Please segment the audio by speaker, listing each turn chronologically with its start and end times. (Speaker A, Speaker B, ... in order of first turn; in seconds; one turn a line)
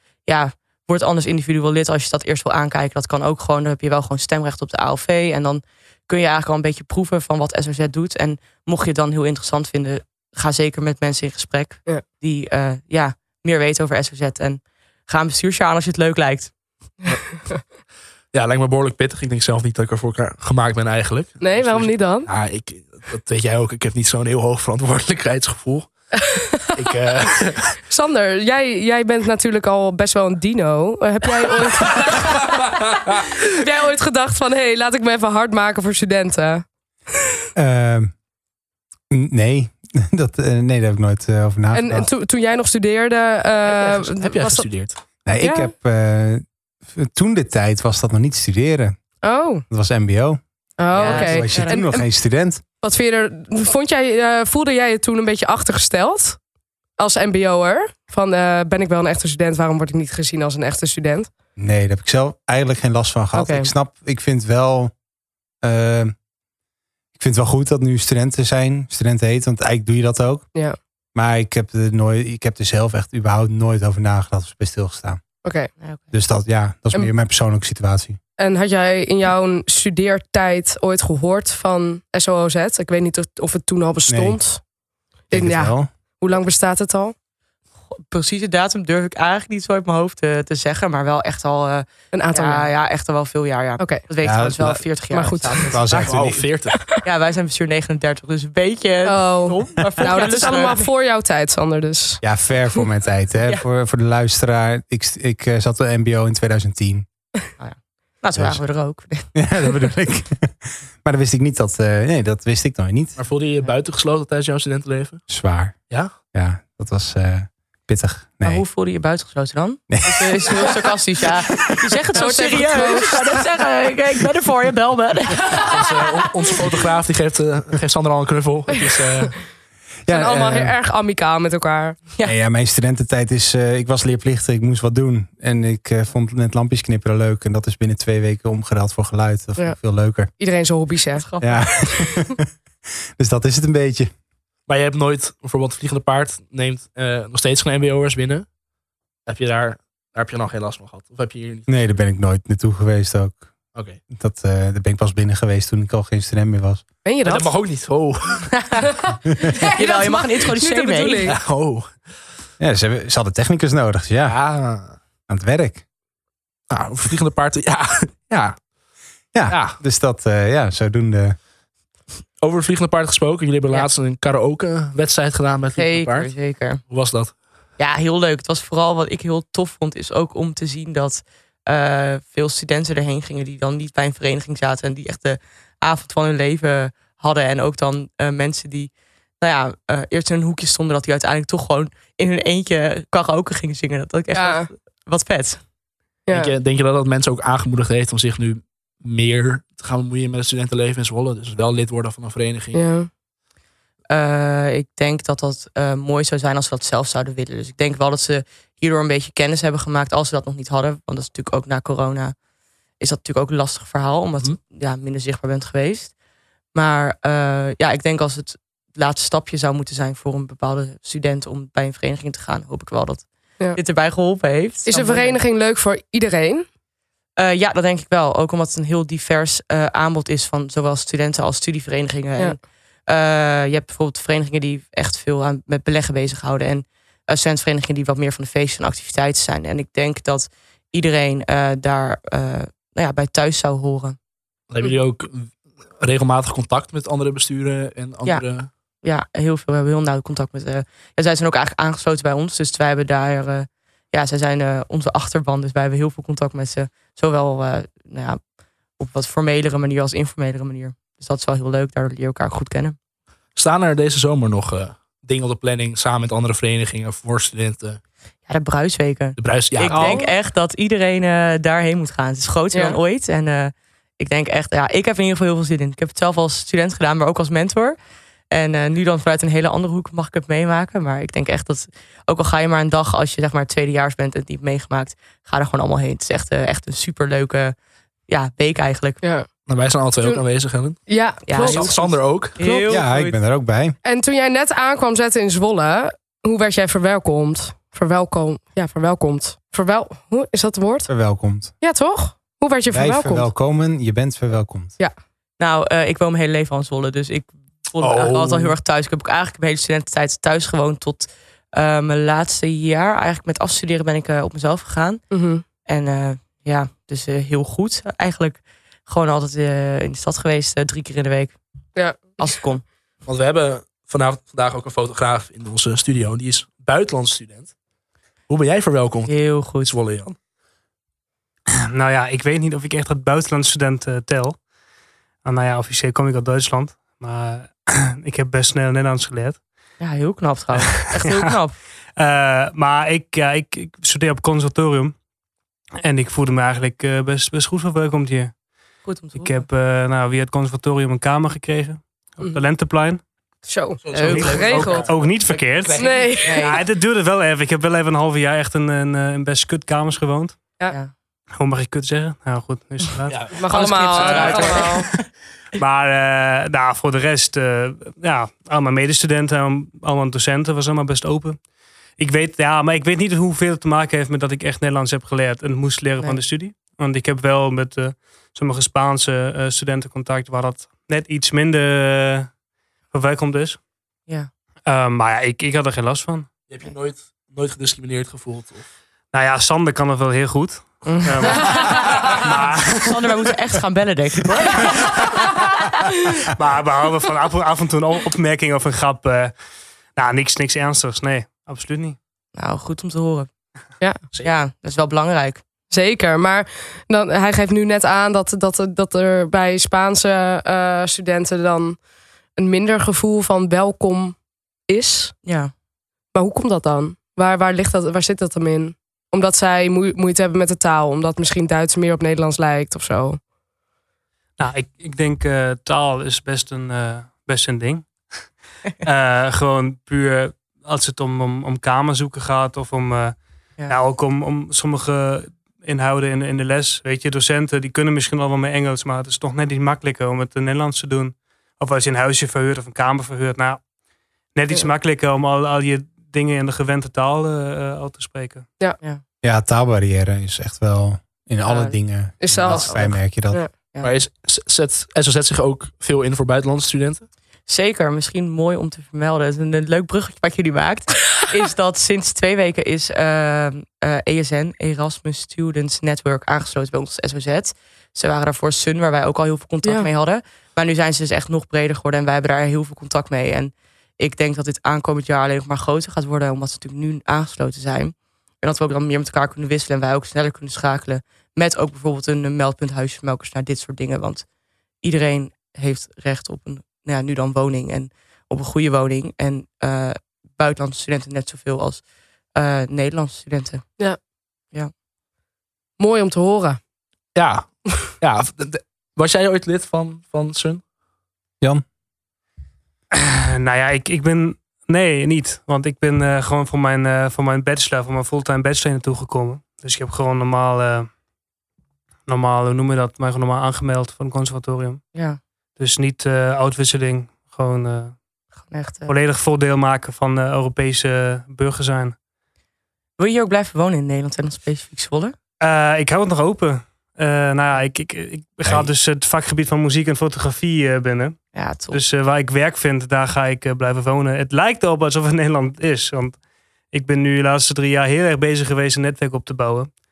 Speaker A: 0.2-16.5
Speaker B: 18.3-25.9
Speaker C: 21.4-22.3
Speaker C: 26.3-26.8
Speaker B: 26.8-27.8
Speaker C: 27.9-32.8
Speaker B: 31.6-33.5
Speaker C: 33.5-36.6
Speaker D: 37.5-38.1
Speaker D: 39.1-42.1
Speaker C: 41.7-44.7
Speaker B: 43.6-45.0
Speaker D: 45.2-49.0
Speaker C: 45.4-45.7
Speaker C: 49.2-49.6
Speaker D: 49.7-52.6
Speaker C: 50.8-52.0
Speaker A: 50.9-51.8
Speaker C: 52.8-56.4
Speaker C: 57.0-61.3
Speaker D: 61.6-64.9
Speaker C: 63.3-63.7
Speaker D: 65.6-66.1
Speaker D: 67.1-70.4
Speaker D: 71.1-75.2
Speaker C: 75.4-75.7
Speaker A: 75.8-76.0
Speaker D: 76.1-78.2
Speaker C: 78.4-84.6
Speaker D: 84.1-84.4
Speaker C: 85.3-87.1
Speaker D: 85.3-85.9
Speaker A: 87.9-96.1
Speaker C: 92.1-92.7
Speaker C: 93.8-94.0
Speaker D: 94.2-94.8
Speaker C: 95.1-95.8
Speaker D: 95.7-96.5
Speaker B: 95.9-96.8
Speaker A: 97.0-100.8
Speaker C: 99.0-102.2
Speaker D: 102.2-107.0
Speaker A: 107.6-109.3
Speaker D: 108.3-108.6
Speaker D: 109.3-113.2
Speaker B: 113.2-115.2
Speaker D: 115.3-118.6
Speaker A: 118.4-126.5
Speaker D: 119.9-120.7
Speaker C: 122.1-123.1
Speaker B: 125.5-129.3
Speaker D: 130.1-130.8
Speaker C: 130.1-132.0
Speaker D: 132.2-140.3
Speaker C: 140.4-141.2
Speaker A: 141.2-142.1
Speaker D: 141.4-142.4
Speaker D: 143.2-144.1
Speaker B: 144.7-148.4
Speaker B: 149.2-151.7
Speaker D: 151.7-153.5
Speaker B: 153.7-154.0
Speaker D: 154.1-156.8
Speaker C: 157.0-157.5
Speaker B: 157.2-158.7
Speaker C: 159.1-161.4
Speaker A: 159.6-161.3
Speaker B: 161.2-162.0
Speaker D: 162.6-164.4
Speaker B: 164.2-164.9
Speaker D: 165.3-165.8
Speaker B: 166.7-168.6
Speaker D: 169.3-171.4
Speaker B: 169.5-169.8
Speaker B: 172.4-177.3
Speaker A: 175.8-176.8
Speaker A: 177.8-195.6
Speaker C: 194.3-194.7
Speaker C: 196.3-196.5
Speaker B: 196.3-202.8
Speaker C: 202.7-203.1
Speaker A: 204.1-212.3
Speaker A: 213.0-216.1
Speaker A: 216.7-225.4
Speaker C: 224.9-226.7
Speaker A: 227.4-244.2
Speaker B: 244.7-248.7
Speaker A: 249.0-258.4
Speaker A: 259.0-262.9
Speaker B: 263.5-268.0
Speaker A: 268.5-278.0
Speaker B: 269.4-270.2
Speaker C: 269.9-270.3
Speaker C: 272.7-273.0
Speaker A: 278.5-287.7
Speaker A: 288.3-289.2
Speaker C: 289.2-289.5
Speaker B: 289.6-292.8
Speaker C: 291.1-292.9
Speaker A: 291.4-293.4
Speaker D: 292.9-294.0
Speaker C: 294.0-301.1
Speaker D: 301.1-301.7
Speaker C: 301.8-303.5
Speaker D: 302.9-304.9
Speaker A: 305.6-315.2
Speaker B: 308.0-308.8
Speaker C: 315.3-315.6
Speaker A: 315.8-321.6
Speaker C: 321.9-322.4
Speaker A: 322.4-322.8
Speaker B: 323.2-327.7
Speaker B: 328.5-330.4
Speaker A: 329.2-329.9
Speaker E: 331.9-334.6
Speaker E: 335.4-339.6
Speaker A: 340.0-341.8
Speaker E: 341.1-341.5
Speaker E: 342.2-345.1
Speaker E: 346.0-348.5
Speaker A: 349.0-349.6
Speaker E: 349.3-353.2
Speaker C: 353.6-355.1
Speaker B: 354.0-356.7
Speaker A: 354.1-354.5
Speaker E: 354.2-356.1
Speaker C: 356.0-356.6
Speaker A: 356.4-356.8
Speaker E: 356.6-360.7
Speaker E: 361.6-363.4
Speaker B: 363.3-364.6
Speaker C: 363.5-365.1
Speaker A: 363.7-365.2
Speaker E: 364.2-364.7
Speaker E: 365.8-371.6
Speaker E: 372.2-382.5
Speaker E: 383.1-383.8
Speaker E: 384.9-386.5
Speaker B: 386.7-388.8
Speaker E: 389.3-393.1
Speaker A: 391.0-392.2
Speaker B: 391.6-392.4
Speaker A: 392.9-395.4
Speaker E: 396.4-399.5
Speaker E: 400.1-402.2
Speaker A: 402.5-403.5
Speaker A: 404.4-405.6
Speaker C: 405.9-412.0
Speaker C: 412.6-414.4
Speaker C: 414.9-415.3
Speaker A: 415.4-415.7
Speaker C: 416.3-423.4
Speaker E: 424.6-428.4
Speaker E: 429.0-443.8
Speaker E: 444.5-448.7
Speaker D: 449.4-453.6
Speaker A: 451.6-451.9
Speaker C: 452.4-453.7
Speaker B: 454.0-457.3
Speaker A: 457.7-484.4
Speaker A: 485.0-492.0
Speaker A: 492.5-493.9
Speaker C: 496.0-496.8
Speaker B: 497.3-497.7
Speaker B: 498.2-500.8
Speaker E: 503.1-511.1
Speaker E: 512.3-515.0
Speaker A: 515.1-515.4
Speaker E: 515.8-518.2
Speaker A: 518.7-519.1
Speaker E: 519.1-522.1
Speaker A: 523.2-525.3
Speaker E: 525.6-536.4
Speaker A: 531.5-532.0
Speaker E: 536.9-539.9